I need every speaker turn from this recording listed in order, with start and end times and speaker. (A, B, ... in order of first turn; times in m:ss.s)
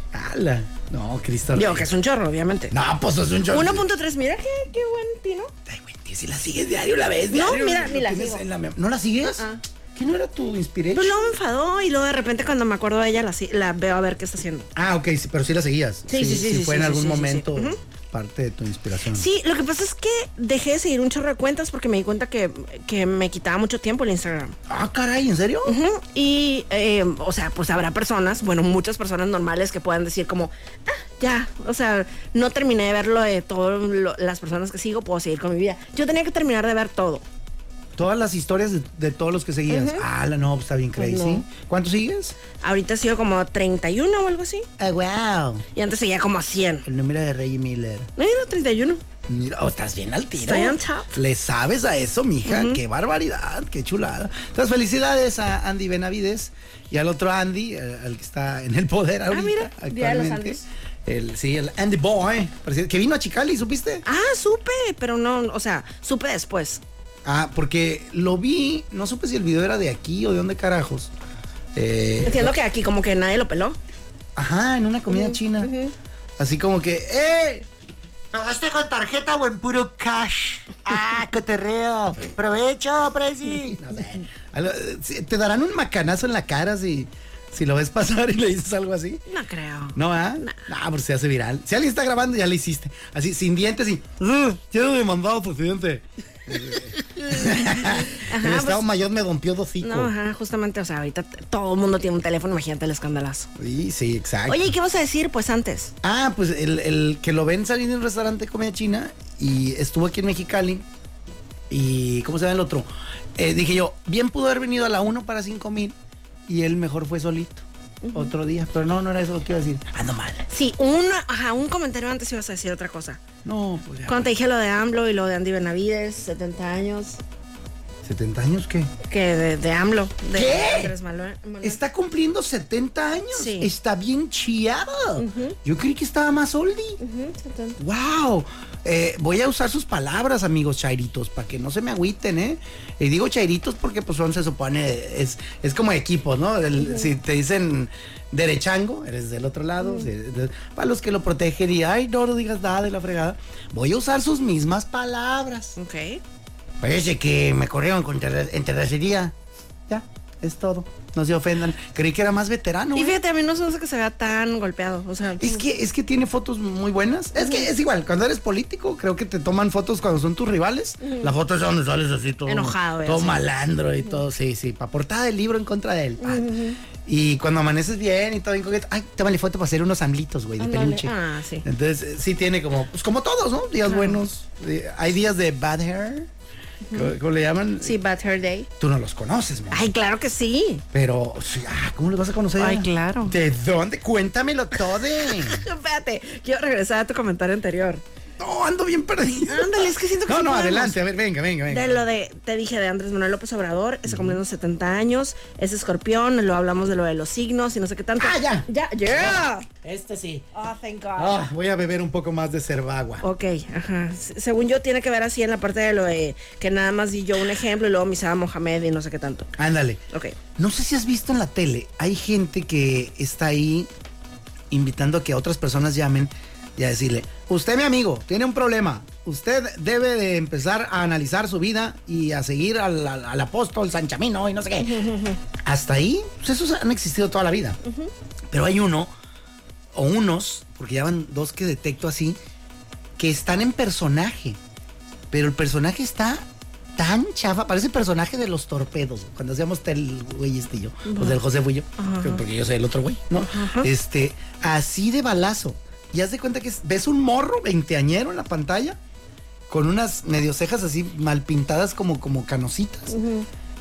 0:00.1-0:01.9 A
0:01.5-0:02.7 B
0:02.7-0:03.9 A
0:03.5-0:05.5 B
0:05.7-0:11.2 A
0:07.3-0:08.4 B
0:10.9-0:14.7 B
0:14.8-0:19.3 A
0:16.1-0:17.8 B
0:19.1-0:24.6 B
0:24.7-0:25.8 A
0:25.6-0:37.2 B
0:38.0-0:42.4 A
0:39.7-0:40.1 B
0:41.0-0:41.5 B
0:42.6-0:44.7 B
0:44.8-0:45.7 A
0:45.8-0:46.9 B
0:46.9-0:48.1 A
0:48.2-0:49.0 B
0:49.3-1:04.0 A
0:50.4-0:51.1 B
0:52.5-0:52.8 B
0:59.3-1:00.6 B
1:04.0-1:06.8 B
1:07.2-1:11.1 A
1:11.8-1:12.6 A
1:12.2-1:13.8 B
1:14.4-1:15.7 A
1:15.1-1:15.9 B
1:16.4-1:17.7 A
1:18.3-1:23.8 C
1:23.8-1:29.2 A
1:29.3-1:30.6 B
1:30.0-1:40.1 A
1:37.2-1:38.8 B
1:39.8-1:43.5 B
1:43.6-1:44.7 A
1:44.5-1:45.9 B
1:46.0-1:50.9 A
1:51.7-1:56.0 A
1:56.5-2:00.5 A
1:58.0-1:58.3 B
2:00.5-2:03.2 B
2:03.4-2:04.3 A
2:04.1-2:07.2 B
2:08.0-2:08.9 A
2:09.0-2:11.8 B
2:10.3-2:10.9 A
2:11.6-2:17.0 A
2:13.3-2:13.7 B
2:15.2-2:15.6 B
2:17.0-2:17.8 B
2:17.8-2:35.8 A
2:26.8-2:27.1 B
2:29.8-2:30.1 B
2:35.8-2:36.2 B
2:36.8-2:39.3 A
2:39.9-2:43.2 A
2:43.0-2:45.6 B
2:45.4-2:56.5 A
2:47.4-2:47.7 B
2:51.0-2:51.3 B
2:52.5-2:53.4 B
2:56.2-2:56.8 B
2:57.0-3:06.3 A
3:00.6-3:01.7 B
3:03.8-3:04.2 B
3:06.9-3:07.1 B
3:06.9-3:08.0 A
3:07.8-3:08.7 B
3:08.8-3:09.9 A
3:09.7-3:10.8 B
3:10.9-3:15.7 A
3:12.6-3:13.4 B
3:15.2-3:18.0 B
3:18.4-3:22.1 A
3:19.5-3:21.0 B
3:21.7-3:29.7 B
3:24.1-3:24.4 A
3:28.2-3:30.5 A
3:30.5-3:31.5 B
3:31.2-3:33.2 A
3:33.2-3:39.5 B
3:39.6-3:40.0 A
3:40.1-3:40.4 B
3:40.6-3:43.9 A
3:44.7-3:55.1 A
3:54.8-3:55.4 B
3:55.6-3:57.8 A
3:57.8-3:58.1 B
3:58.5-3:59.1 A
3:59.9-4:02.4 A
4:03.2-4:04.6 A
4:05.3-4:19.0 A
4:11.1-4:11.4 B
4:12.0-4:12.4 B
4:13.4-4:13.9 B
4:19.7-4:23.2 A
4:23.1-4:23.5 B